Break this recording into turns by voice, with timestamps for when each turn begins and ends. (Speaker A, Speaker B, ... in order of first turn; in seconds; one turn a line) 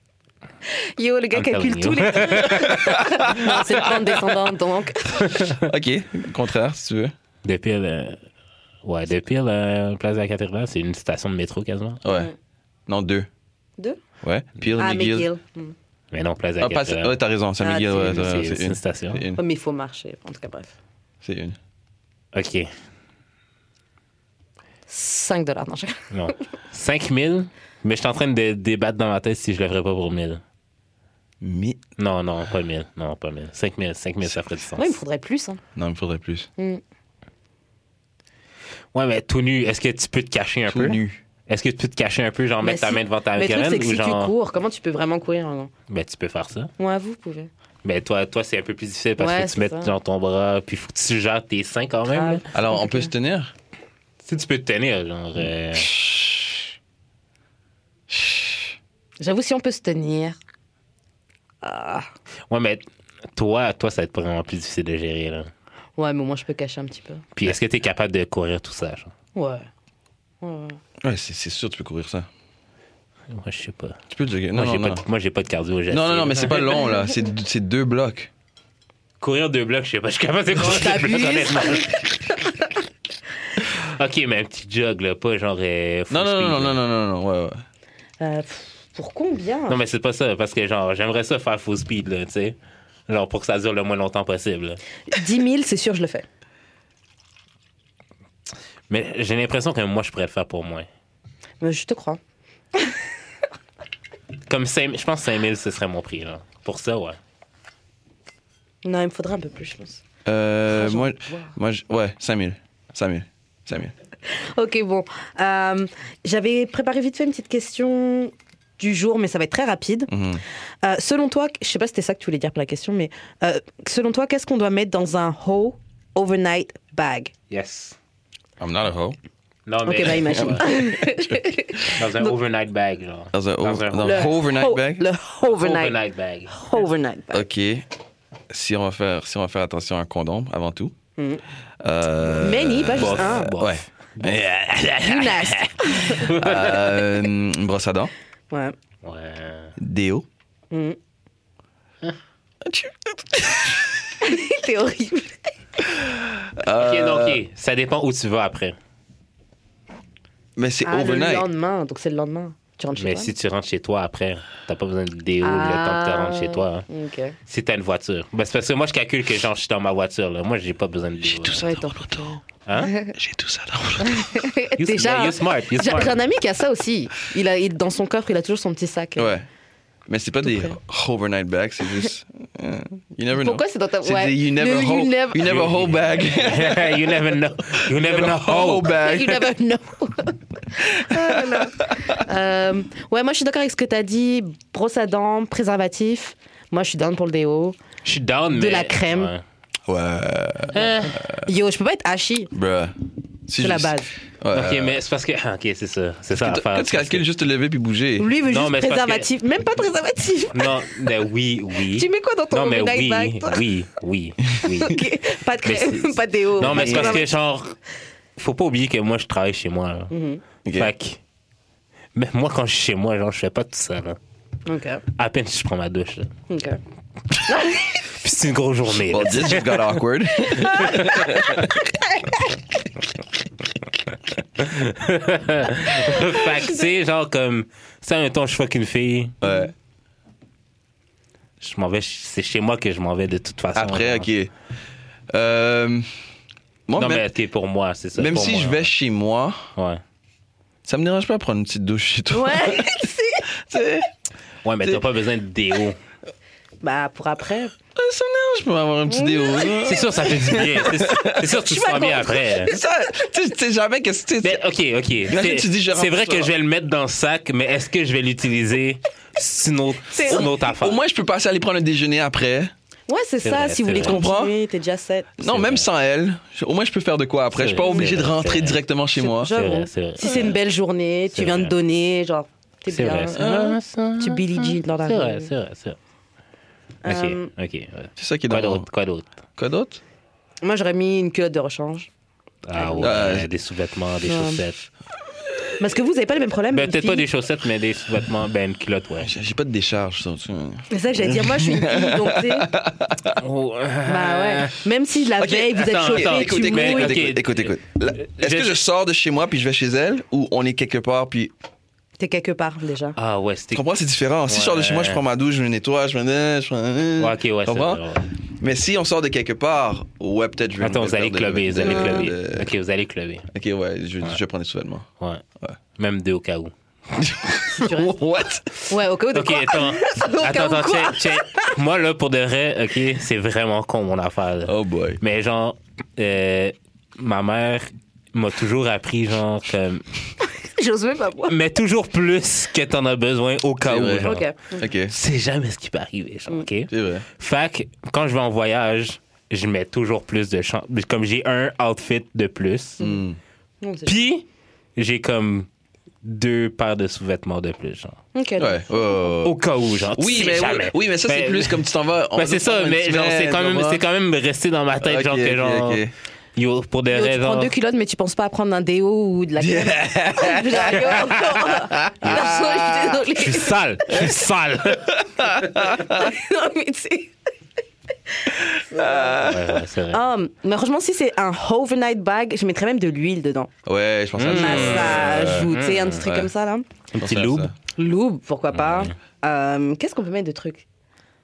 Speaker A: 0.7-5.3
Speaker B: 1.3-2.9
Speaker C: 2.7-3.8
Speaker C: 5.5-7.1
Speaker B: 7.4-8.2
Speaker B: 8.8-12.0
Speaker C: 12.0-12.3
Speaker A: 12.1-12.3
Speaker C: 12.9-13.3
Speaker C: 14.2-15.3
Speaker A: 14.8-15.7
Speaker B: 16.1-17.1
Speaker C: 16.6-19.4
Speaker A: 17.6-18.4
Speaker B: 17.9-19.2
Speaker A: 19.4-20.7
Speaker C: 21.2-21.6
Speaker B: 22.3-22.7
Speaker A: 24.9-26.1
Speaker B: 26.1-30.4
Speaker C: 31.4-31.8
Speaker B: 32.0-35.0
Speaker A: 34.8-35.6
Speaker C: 35.8-36.5
Speaker B: 38.9-44.3
Speaker C: 40.7-41.2
Speaker A: 42.6-45.7
Speaker B: 45.9-46.7
Speaker A: 46.8-47.5
Speaker B: 47.8-52.4
Speaker A: 49.2-49.9
Speaker A: 52.1-53.1
Speaker C: 52.5-53.5
Speaker B: 54.2-55.9
Speaker C: 55.7-56.6
Speaker C: 58.1-58.7
Speaker A: 59.2-60.4
Speaker A: 61.6-62.1
Speaker B: 62.5-62.8
Speaker B: 63.3-65.5
Speaker A: 66.0-67.2
Speaker B: 67.3-69.1
Speaker A: 69.3-69.7
Speaker A: 70.4-70.8
Speaker C: 71.0-72.3
Speaker B: 73.3-74.0
Speaker C: 74.1-75.0
Speaker B: 74.5-76.8
Speaker C: 75.9-78.3
Speaker B: 79.2-82.2
Speaker A: 80.6-82.0
Speaker B: 83.6-86.8
Speaker C: 86.1-87.6
Speaker A: 88.2-89.8
Speaker B: 89.7-92.5
Speaker B: 93.1-94.8
Speaker A: 95.1-96.2
Speaker B: 98.9-100.9
Speaker A: 101.6-102.2
Speaker B: 104.5-107.2
Speaker A: 108.8-110.0
Speaker C: 110.2-113.9
Speaker A: 110.7-111.5
Speaker A: 114.3-120.1
Speaker C: 120.1-120.4
Speaker A: 120.8-127.3
Speaker B: 127.5-128.0
Speaker C: 128.6-129.2
Speaker B: 129.7-130.8
Speaker A: 129.8-132.3
Speaker C: 130.3-130.8
Speaker B: 131.8-134.3
Speaker C: 133.3-135.0
Speaker A: 134.0-136.0
Speaker B: 135.5-136.6
Speaker A: 136.5-137.4
Speaker C: 137.3-137.8
Speaker C: 138.5-140.9
Speaker A: 141.2-141.4
Speaker C: 141.8-145.2
Speaker A: 142.4-143.5
Speaker B: 142.9-145.6
Speaker A: 145.0-146.3
Speaker B: 146.1-146.9
Speaker C: 146.3-148.1
Speaker B: 149.0-149.7
Speaker C: 149.8-150.2
Speaker A: 150.7-151.0
Speaker C: 152.6-153.9
Speaker A: 154.2-155.4
Speaker C: 155.9-157.4
Speaker B: 156.7-158.8
Speaker C: 160.6-161.5
Speaker A: 160.8-163.3
Speaker B: 163.0-166.8
Speaker A: 165.4-167.3
Speaker B: 167.5-171.7
Speaker C: 171.2-172.4
Speaker A: 171.6-173.1
Speaker B: 172.7-172.9
Speaker C: 173.1-174.5
Speaker A: 174.0-179.3
Speaker B: 174.8-176.2
Speaker C: 179.2-179.4
Speaker C: 180.1-187.0
Speaker A: 180.4-180.8
Speaker A: 183.4-185.6
Speaker B: 185.4-189.0
Speaker C: 187.8-189.4
Speaker A: 188.9-197.8
Speaker C: 190.9-192.2
Speaker B: 198.0-199.4
Speaker A: 198.5-199.3
Speaker C: 199.9-201.5
Speaker B: 200.7-201.2
Speaker A: 201.3-202.5
Speaker C: 202.5-202.9
Speaker C: 203.5-205.0
Speaker A: 203.6-204.1
Speaker B: 204.5-207.2
Speaker C: 206.4-208.3
Speaker A: 208.2-210.9
Speaker B: 208.5-209.3
Speaker B: 210.5-215.0
Speaker A: 211.9-213.6
Speaker A: 214.6-217.3
Speaker B: 215.6-217.8
Speaker C: 216.6-217.2
Speaker B: 218.4-220.1
Speaker A: 220.1-220.4
Speaker C: 220.6-220.9
Speaker B: 220.7-221.2
Speaker B: 222.1-224.2
Speaker A: 224.7-225.0
Speaker B: 225.1-226.3
Speaker A: 226.5-226.8
Speaker A: 227.5-227.9
Speaker B: 228.0-230.0
Speaker C: 228.9-231.6
Speaker A: 230.4-232.4
Speaker B: 234.6-239.4
Speaker A: 236.1-236.8
Speaker C: 239.4-239.7
Speaker B: 241.6-244.3
Speaker C: 243.7-244.5
Speaker C: 245.3-246.1
Speaker C: 246.9-247.3
Speaker B: 247.0-248.9
Speaker C: 248.2-249.7
Speaker C: 250.8-252.9
Speaker A: 252.3-253.5
Speaker C: 253.5-254.1
Speaker B: 254.6-256.0
Speaker A: 256.8-257.7
Speaker C: 257.9-261.5
Speaker A: 259.1-259.9
Speaker B: 259.8-262.7
Speaker A: 261.4-262.7
Speaker C: 262.7-264.6
Speaker B: 264.4-271.0
Speaker C: 265.3-266.5
Speaker A: 270.1-270.5
Speaker C: 270.3-272.7
Speaker A: 273.1-275.3
Speaker B: 273.4-274.2
Speaker C: 273.9-274.5
Speaker C: 275.4-279.5
Speaker B: 275.4-275.9
Speaker B: 277.5-278.8
Speaker A: 279.2-283.4
Speaker B: 279.5-280.6
Speaker B: 281.3-281.7
Speaker B: 282.9-286.0
Speaker C: 283.3-283.8
Speaker A: 284.2-285.5
Speaker A: 287.0-287.5
Speaker B: 287.1-289.3
Speaker C: 288.2-288.9
Speaker C: 289.6-290.0
Speaker A: 290.6-292.1
Speaker B: 292.6-294.8
Speaker A: 292.7-293.3
Speaker C: 293.0-293.5
Speaker A: 294.2-294.6
Speaker A: 295.8-297.2
Speaker B: 296.7-299.3
Speaker C: 299.2-303.4
Speaker A: 300.9-302.7
Speaker B: 303.4-304.8
Speaker A: 304.0-307.2
Speaker C: 305.4-311.5
Speaker B: 305.6-308.8
Speaker A: 312.2-313.1
Speaker B: 313.2-313.9
Speaker C: 313.7-322.7
Speaker B: 314.5-315.2
Speaker B: 317.2-318.3
Speaker B: 320.8-323.5
Speaker A: 321.8-322.3
Speaker C: 323.5-325.1
Speaker B: 326.0-326.7
Speaker C: 327.2-328.8
Speaker A: 327.7-328.1
Speaker A: 328.9-331.7
Speaker B: 329.3-340.1
Speaker C: 334.6-335.2
Speaker A: 340.5-341.6
Speaker B: 341.5-344.5
Speaker C: 343.8-345.1
Speaker A: 344.2-344.9
Speaker B: 345.1-353.0
Speaker C: 346.9-347.2
Speaker C: 353.0-353.4
Speaker A: 353.8-354.2
Speaker B: 354.1-354.4
Speaker B: 354.9-355.7
Speaker B: 356.2-358.2
Speaker A: 358.3-358.9
Speaker C: 358.6-359.6
Speaker B: 359.4-366.0
Speaker C: 360.1-364.0
Speaker C: 365.0-366.1
Speaker B: 366.6-367.7
Speaker A: 367.1-373.7
Speaker C: 369.6-371.4
Speaker B: 371.1-371.5
Speaker C: 371.9-373.1
Speaker B: 372.2-372.5
Speaker B: 373.3-375.2
Speaker C: 375.3-376.3
Speaker A: 375.9-377.3
Speaker A: 378.4-379.5
Speaker C: 378.9-379.8
Speaker B: 379.4-380.2
Speaker A: 380.1-383.7
Speaker C: 383.8-385.7
Speaker B: 384.4-386.2
Speaker A: 384.4-386.9
Speaker C: 386.2-386.5
Speaker B: 387.1-387.7
Speaker C: 387.2-387.7
Speaker A: 387.9-390.8
Speaker B: 388.8-389.1